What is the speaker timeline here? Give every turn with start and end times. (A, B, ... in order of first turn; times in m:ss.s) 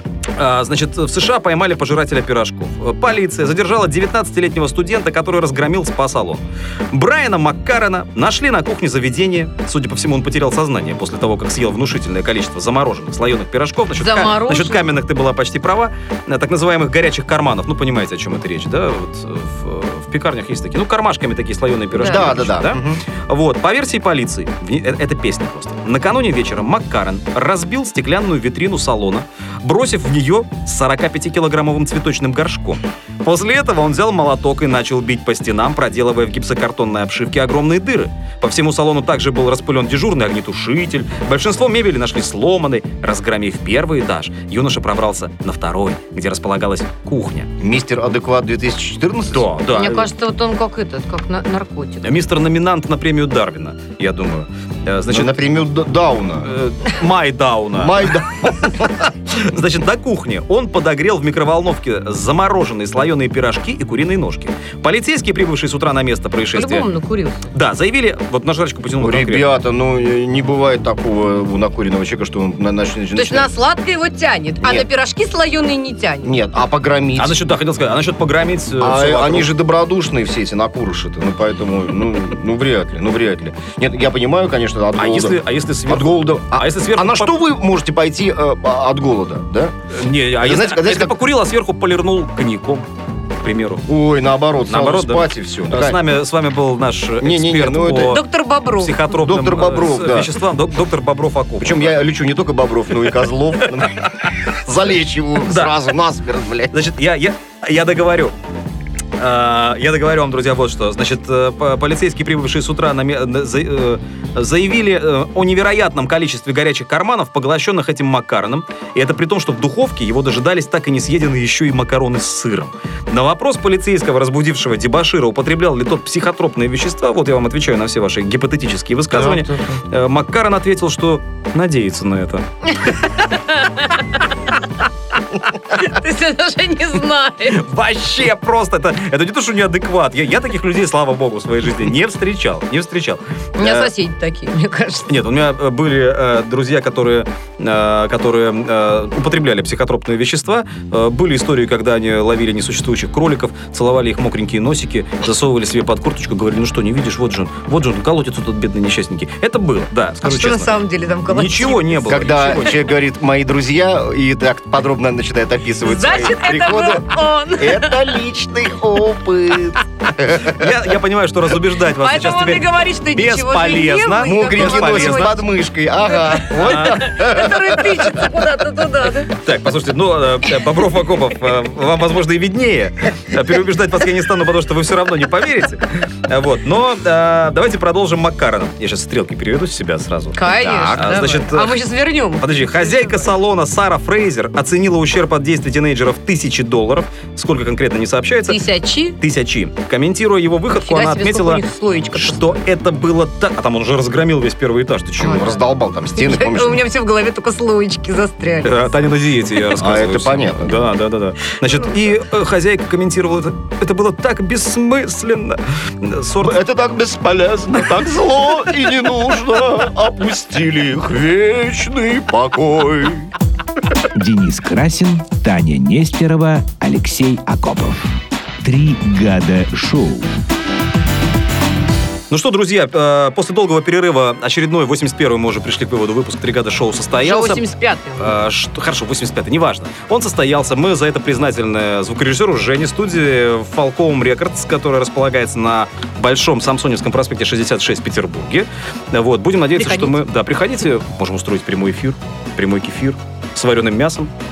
0:00.4-0:47.5 A
0:14.0-0:14.9 B
0:21.9-0:22.6 B
0:22.0-0:23.0 C
0:47.6-0:49.6 C
0:49.3-0:50.1 A
0:49.7-0:52.2 B
0:52.0-0:55.5 A
0:55.1-0:56.5 C
0:56.4-1:06.9 A
0:57.7-0:58.8 C
1:06.5-1:07.5 B
1:07.5-1:09.5 A
1:09.0-1:13.5 C
1:13.1-1:16.4 B
1:14.6-1:14.9 C
1:16.2-1:17.4 C
1:17.2-1:19.5 A
1:18.8-1:29.7 C
1:24.9-1:27.4 A
1:29.9-1:32.9 A
1:30.4-1:31.2 C
1:33.4-1:33.9 A
1:33.9-1:36.0 C
1:34.6-1:38.2 A
1:37.2-1:38.2 C
1:38.0-1:39.1 B
1:38.8-1:42.0 A
1:39.1-1:40.3 C
1:41.6-1:46.7 C
1:43.0-1:43.2 A
1:43.8-1:44.3 A
1:45.4-1:45.7 A
1:46.7-1:48.3 A
1:49.2-2:12.4 A
2:09.1-2:09.8 C
2:12.9-2:14.3 B
2:15.6-2:17.6 B
2:17.5-2:23.9 A
2:23.6-2:25.1 B
2:25.1-2:42.9 A
2:40.2-2:42.6 B
2:42.1-2:50.8 C
2:45.8-2:48.1 B
2:50.4-2:55.3 A
2:51.9-2:55.4 B
2:54.2-2:58.3 C
2:56.0-2:59.3 B
2:56.6-2:57.1 A
2:59.3-3:11.8 A
3:10.3-3:13.3 B
3:10.6-3:11.2 C
3:12.4-3:18.6 A
3:18.4-3:19.2 B
3:19.2-3:21.6 A
3:20.7-3:22.6 B
3:22.1-3:25.5 A
3:25.2-3:26.8 C
3:25.2-3:28.9 B
3:28.6-3:36.6 A
3:29.8-3:30.8 C
3:36.4-3:43.3 C
3:44.1-3:50.3 D
3:52.3-3:57.6 A
3:57.2-3:58.4 B
3:58.2-4:14.3 A
4:09.7-4:10.2 B